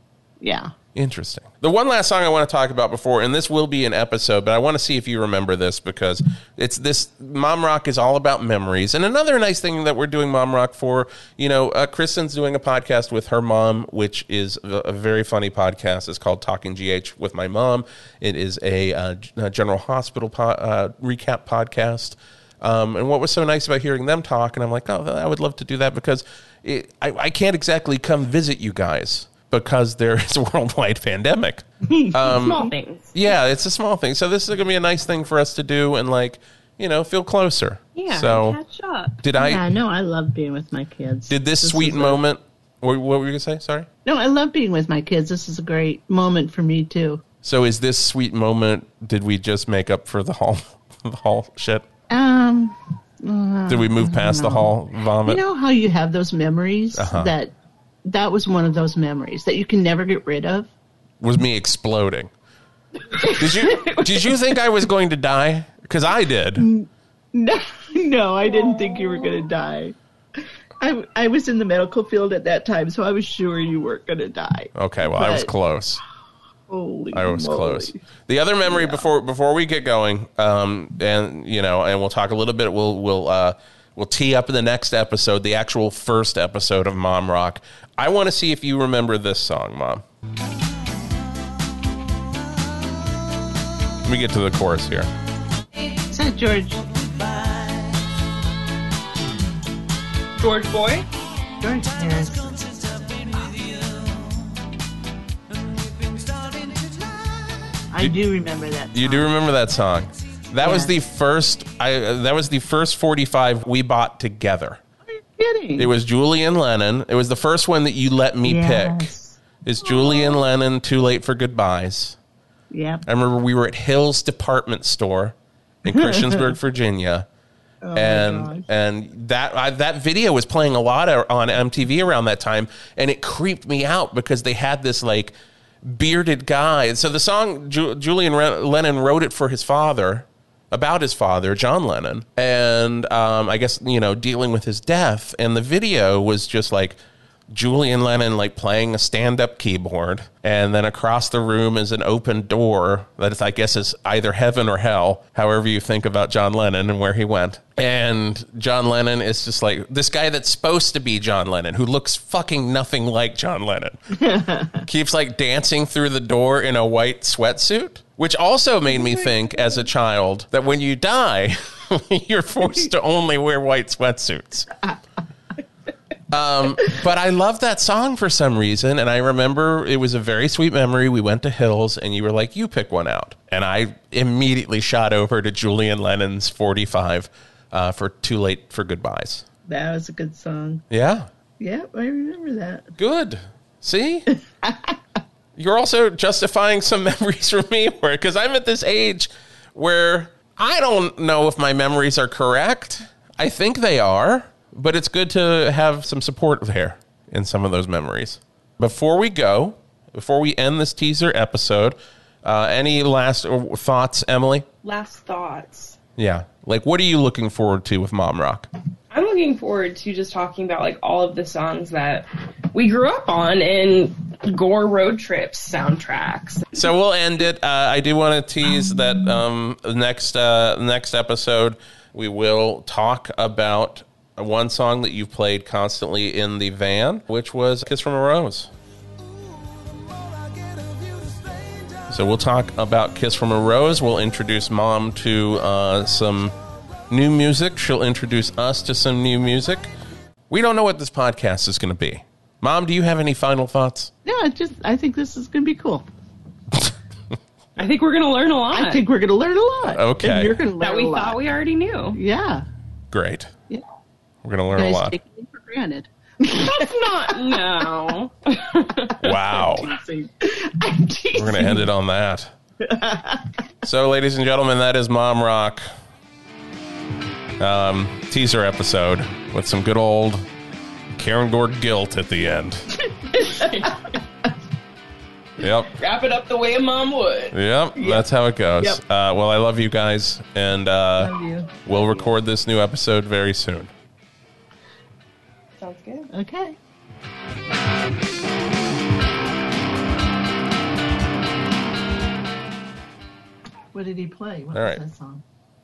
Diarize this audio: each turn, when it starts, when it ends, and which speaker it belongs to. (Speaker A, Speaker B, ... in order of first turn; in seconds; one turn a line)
Speaker A: 0.4-0.7
Speaker B: 0.9-38.6
Speaker A: 31.8-32.7
Speaker C: 32.2-33.1
Speaker C: 37.9-39.3
Speaker B: 39.2-39.6
Speaker A: 39.4-42.2
Speaker B: 41.3-43.9
Speaker A: 44.0-47.2
Speaker B: 47.4-51.9
Speaker A: 52.1-57.5
Speaker B: 53.7-55.4
Speaker B: 56.9-57.3
Speaker A: 58.0-60.7
Speaker B: 61.2-62.3
Speaker A: 63.1-64.5
Speaker B: 63.4-66.7
Speaker A: 66.5-75.5
Speaker B: 74.7-76.0
Speaker A: 76.7-78.0
Speaker B: 77.1-90.0
Speaker A: 78.7-79.0
Speaker B: 94.0-95.1
Speaker A: 95.9-97.8
Speaker C: 100.4-101.1
Speaker A: 101.6-104.1
Speaker A: 107.9-109.3
Speaker B: 108.9-114.8
Speaker A: 110.6-111.0
Speaker A: 115.1-115.9
Speaker B: 115.8-119.1
Speaker A: 118.4-120.4
Speaker B: 119.6-122.2
Speaker A: 122.7-123.0
Speaker B: 123.0-127.2
Speaker A: 126.0-126.5
Speaker A: 127.8-128.7
Speaker B: 127.9-135.3
Speaker B: 135.8-147.0
Speaker B: 147.5-164.2
Speaker A: 164.1-164.8
Speaker B: 164.8-174.7
Speaker B: 176.3-189.4
Speaker A: 189.7-190.8
Speaker B: 190.9-191.3
Speaker A: 191.6-192.9
Speaker B: 193.0-194.2
Speaker A: 194.6-194.9
Speaker B: 195.6-214.7
Speaker C: 214.8-216.0
Speaker B: 216.2-218.7
Speaker C: 219.1-226.7
Speaker B: 226.7-238.7
Speaker B: 242.1-246.5
Speaker B: 247.1-249.9
Speaker B: 250.5-254.1
Speaker A: 254.2-256.1
Speaker C: 257.8-259.0
Speaker A: 258.7-261.4
Speaker B: 259.9-260.6
Speaker C: 260.8-262.2
Speaker A: 262.1-262.7
Speaker B: 263.1-263.5
Speaker B: 264.4-265.1
Speaker A: 264.7-267.4
Speaker C: 266.5-269.2
Speaker B: 269.2-270.0
Speaker A: 269.3-271.8
Speaker B: 271.3-272.5
Speaker A: 272.8-273.5
Speaker B: 273.8-275.8
Speaker B: 277.6-280.4
Speaker B: 281.1-282.9
Speaker A: 283.3-283.9
Speaker C: 283.4-284.0
Speaker B: 285.6-285.9
Speaker C: 285.9-287.5
Speaker B: 287.5-291.3
Speaker A: 287.9-288.3
Speaker A: 291.2-291.7
Speaker B: 291.8-293.9
Speaker C: 295.8-296.3
Speaker A: 296.3-296.8
Speaker A: 303.9-305.4
Speaker B: 304.7-305.0